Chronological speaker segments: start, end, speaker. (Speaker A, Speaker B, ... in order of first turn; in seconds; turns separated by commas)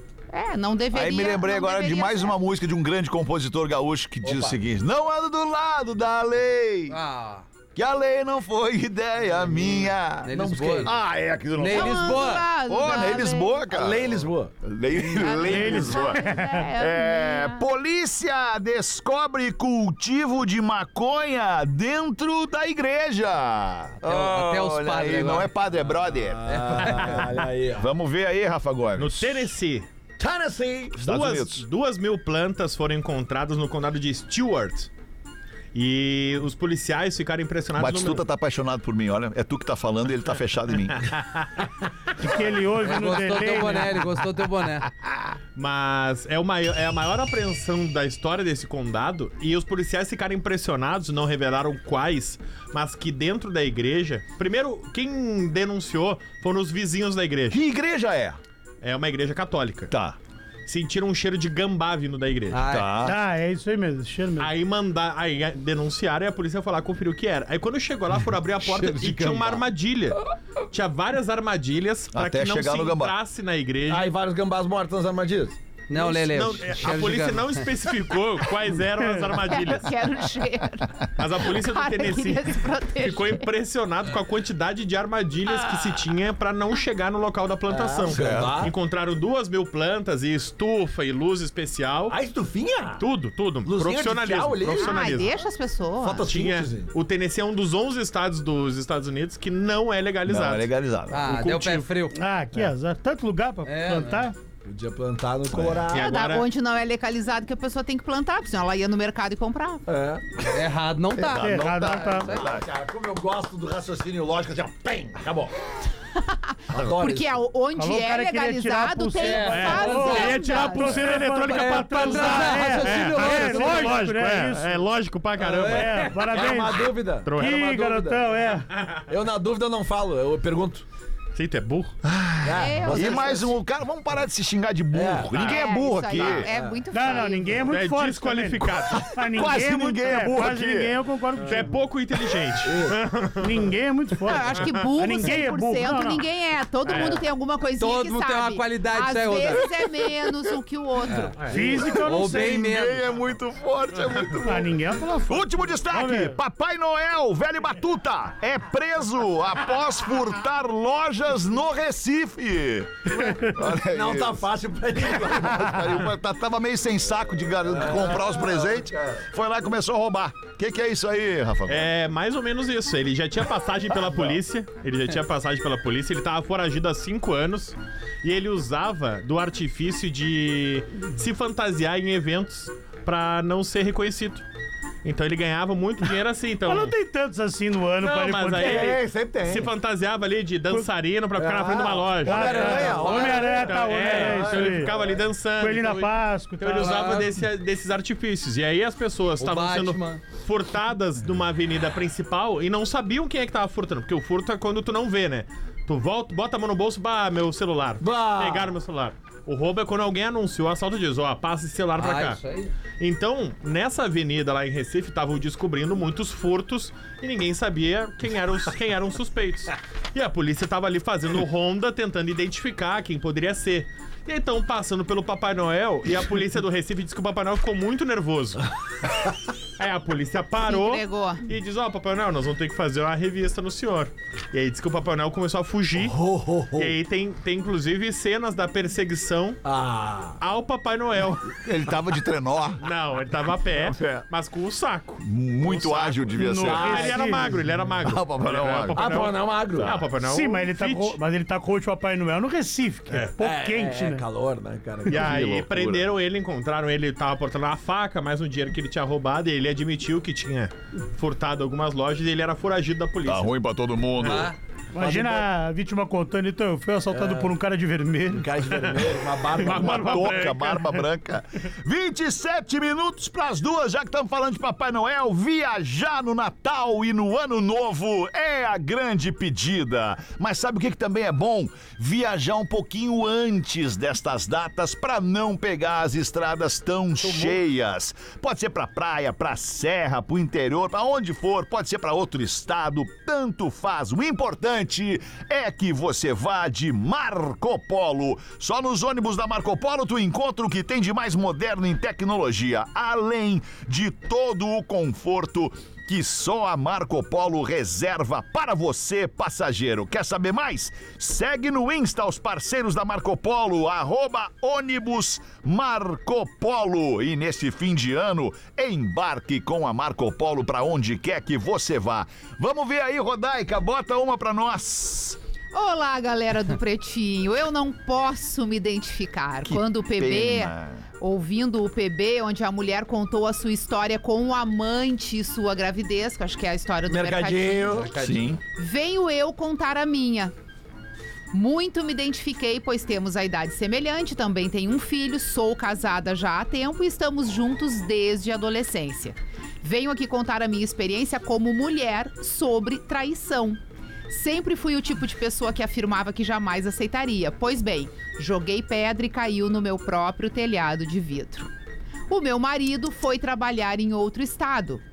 Speaker A: 0.3-2.4, Speaker B: 0.9-7.0, Speaker C: 4.2-4.6, Speaker D: 6.9-7.4, Speaker B: 7.7-16.2, Speaker C: 9.5-10.9, Speaker D: 10.2-10.9, Speaker D: 11.6-12.5, Speaker A: 11.6-13.6, Speaker C: 13.7-14.5, Speaker A: 15.1-17.6, Speaker E: 15.4-16.6, Speaker B: 16.8-27.2, Speaker D: 24.0-25.5, Speaker C: 26.2-27.9, Speaker D: 26.5-27.2, Speaker B: 27.8-29.5, Speaker F: 28.9-29.9, Speaker C: 30.2-31.0, Speaker B: 31.0-31.6, Speaker F: 31.0-34.9, Speaker F: 35.7-38.2, Speaker B: 37.8-41.1, Speaker F: 41.0-41.5, Speaker E: 42.2-44.1, Speaker D: 42.8-44.9, Speaker F: 45.5-57.6, Speaker B: 57.5-58.4, Speaker F: 58.8-59.9, Speaker B: 59.9-60.2, Speaker F: 60.6-62.7, Speaker D: 62.5-63.0, Speaker B: 62.6-63.1, Speaker E: 63.0-64.5, Speaker F: 64.4-74.1, Speaker C: 68.7-69.6, Speaker B: 72.1-73.1, Speaker C: 73.9-75.6, Speaker D: 75.9-77.6, Speaker F: 75.9-79.9, Speaker A: 79.5-83.4, Speaker F: 81.2-92.2, Speaker C: 87.7-88.7, Speaker B: 88.1-88.5, Speaker C: 92.1-93.0, Speaker F: 93.0-95.3, Speaker C: 93.6-95.1, Speaker A: 94.7-96.3, Speaker C: 96.0-96.9, Speaker F: 96.3-101.9, Speaker B: 100.2-101.2, Speaker D: 101.1-102.2, Speaker E: 102.1-104.3, Speaker D: 103.6-104.3, Speaker C: 104.6-106.1, Speaker B: 105.5-105.9, Speaker F: 105.9-106.4, Speaker A: 105.9-109.8, Speaker C: 109.9-110.3, Speaker D: 110.5-112.2, Speaker B: 111.3-112.7, Speaker E: 111.4-112.3, Speaker C: 111.8-115.5, Speaker A: 116.2-121.0, Speaker C: 116.7-117.4, Speaker E: 117.8-124.8, Speaker D: 119.2-120.5, Speaker F: 119.5-126.4, Speaker D: 121.4-124.0, Speaker D: 125.5-126.2, Speaker E: 125.6-128.7, Speaker C: 125.6-128.4, Speaker F: 127.2-127.6, Speaker C: 129.1-130.8, Speaker F: 131.3-131.9, Speaker B: 132.0-136.5, Speaker C: 132.4-133.5, Speaker A: 132.5-133.5, Speaker C: 134.9-135.4, Speaker A: 135.4-137.7, Speaker C: 136.2-136.8, Speaker E: 136.9-141.8, Speaker F: 137.7-139.0, Speaker B: 138.9-140.9, Speaker F: 141.4-143.6, Speaker C: 142.6-143.0, Speaker E: 143.4-146.2, Speaker A: 144.2-151.4, Speaker F: 146.8-147.2, Speaker D: 147.8-149.7, Speaker D: 151.1-153.0, Speaker C: 151.4-151.9, Speaker E: 151.5-152.6, Speaker B: 151.8-154.7, Speaker E: 154.4-156.4, Speaker B: 155.3-164.5, Speaker C: 163.1-166.0, Speaker B: 165.1-171.9, Speaker C: 167.6-169.2, Speaker F: 171.7-184.4, Speaker F: 185.0-186.9, Speaker E: 186.7-188.9, Speaker F: 188.0-212.4, Speaker C: 188.5-189.7, Speaker C: 191.3-195.2, Speaker E: 192.2-194.9, Speaker D: 192.6-193.6, Speaker E: 195.6-196.9, Speaker D: 196.7-197.3, Speaker D: 199.4-200.2, Speaker C: 208.0-208.7, Speaker D: 212.0-212.7, Speaker F: 213.0-228.6, Speaker F: 229.8-236.2, Speaker A: 230.6-231.4, Speaker C: 235.9-236.9, Speaker F: 236.7-239.6, Speaker C: 239.6-240.4, Speaker F: 240.4-241.5, Speaker B: 241.5-242.8, Speaker F: 242.8-251.2, Speaker B: 243.8-244.2, Speaker B: 245.2-247.1, Speaker E: 246.4-247.5, Speaker C: 246.6-247.3, Speaker B: 248.0-250.1, Speaker C: 248.9-250.0, Speaker E: 250.2-254.2, Speaker C: 253.3-255.4, Speaker B: 255.1-256.1, Speaker F: 255.1-263.5, Speaker B: 263.2-264.5, Speaker F: 264.2-264.5, Speaker C: 264.3-265.5, Speaker E: 264.9-268.6, Speaker C: 267.1-267.5, Speaker C: 268.3-270.4, Speaker F: 268.7-269.0, Speaker F: 269.5-271.0, Speaker B: 269.7-325.4, Speaker A: 325.7-338.1, Speaker B: 329.6-331.0, Speaker C: 337.1-338.1, Speaker D: 337.9-338.5, Speaker B: 338.2-338.6, Speaker A: 338.8-340.5, Speaker A: 341.5-361.7, Speaker A: 362.3-365.0